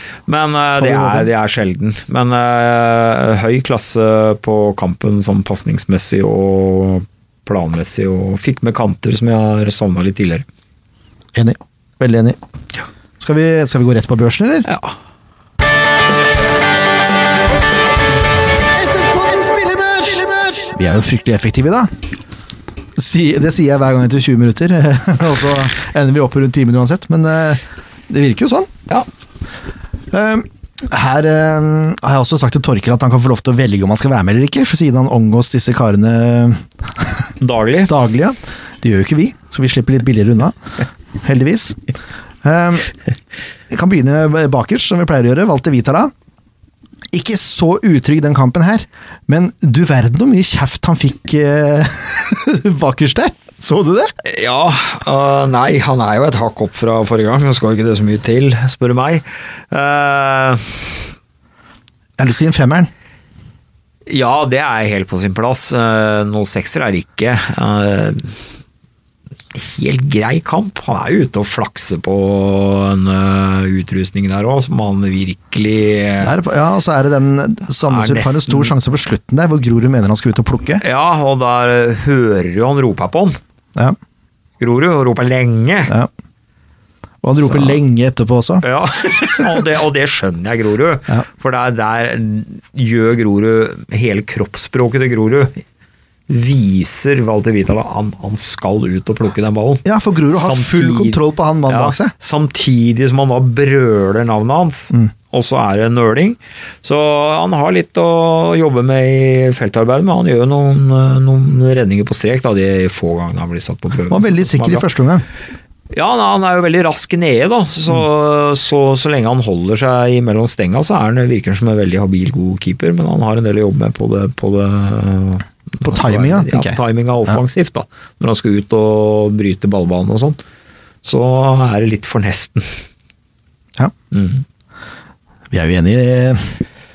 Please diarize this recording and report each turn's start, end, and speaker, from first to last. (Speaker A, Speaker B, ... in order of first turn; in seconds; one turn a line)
Speaker A: 0.3-10.4
Speaker B: 0.8-1.3
Speaker B: 11.3-12.4
Speaker B: 13.2-14.7
Speaker A: 14.7-14.9
Speaker B: 18.7-21.9
Speaker B: 23.0-28.7
Speaker B: 30.1-37.3
Speaker A: 37.4-37.9
Speaker B: 37.9-40.5
Speaker B: 41.2-41.8
Speaker B: 42.4-42.9
Speaker B: 43.7-46.1
Speaker B: 47.1-54.1
Speaker A: 54.2-61.1
Speaker B: 62.2-62.9
Speaker A: 64.1-68.4
Speaker A: 69.5-76.3
Speaker B: 76.2-80.8
Speaker A: 77.9-78.7
Speaker A: 80.8-83.4
Speaker A: 84.6-85.9
Speaker B: 87.2-88.6
Speaker A: 87.5-87.8
Speaker A: 88.6-95.6
Speaker A: 96.3-114.9
Speaker B: 99.8-102.1
Speaker B: 114.1-115.2
Speaker A: 115.9-130.4
Speaker B: 125.8-127.4
Speaker A: 131.0-132.8
Speaker A: 134.1-134.4
Speaker B: 135.5-136.6